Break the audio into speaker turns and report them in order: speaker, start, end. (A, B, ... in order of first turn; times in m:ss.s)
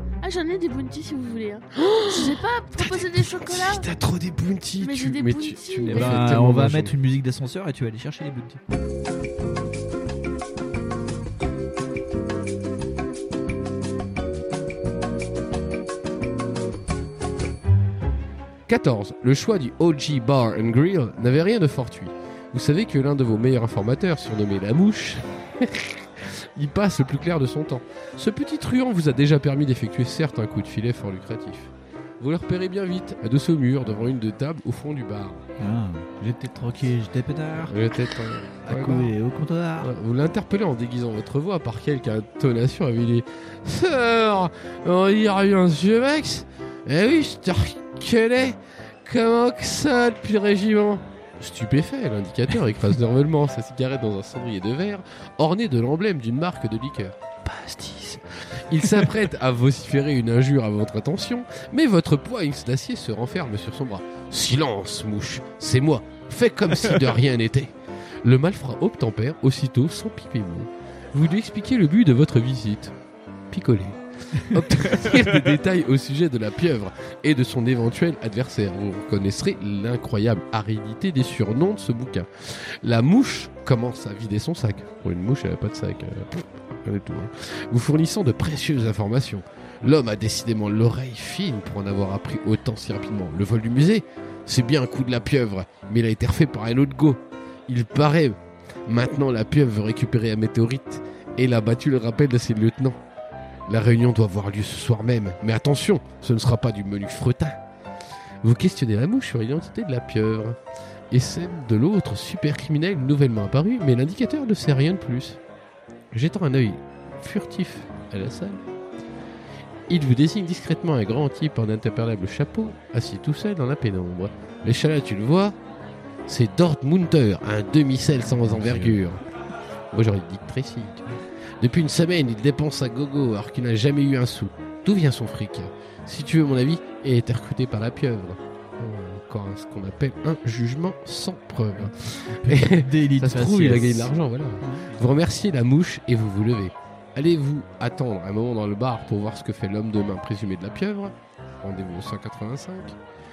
0:00.2-0:03.9 A
0:01.8-0:06.9 B
0:04.8-0:06.2 A
0:05.9-0:08.6 C
0:18.7-0:35.4 B
0:35.6-0:38.0 C
0:37.7-0:39.1 B
0:38.6-0:39.9 C
0:39.8-1:12.9 B
1:13.5-1:43.0 B
1:43.7-1:47.6 B
1:48.4-1:50.6 B
1:51.1-1:55.4 B
1:56.1-1:58.6 B
1:59.9-2:05.6 B
2:06.3-2:09.2 B
2:08.2-2:09.0 C
2:09.9-2:11.1 B
2:11.6-2:33.0 B
2:21.8-2:25.0 C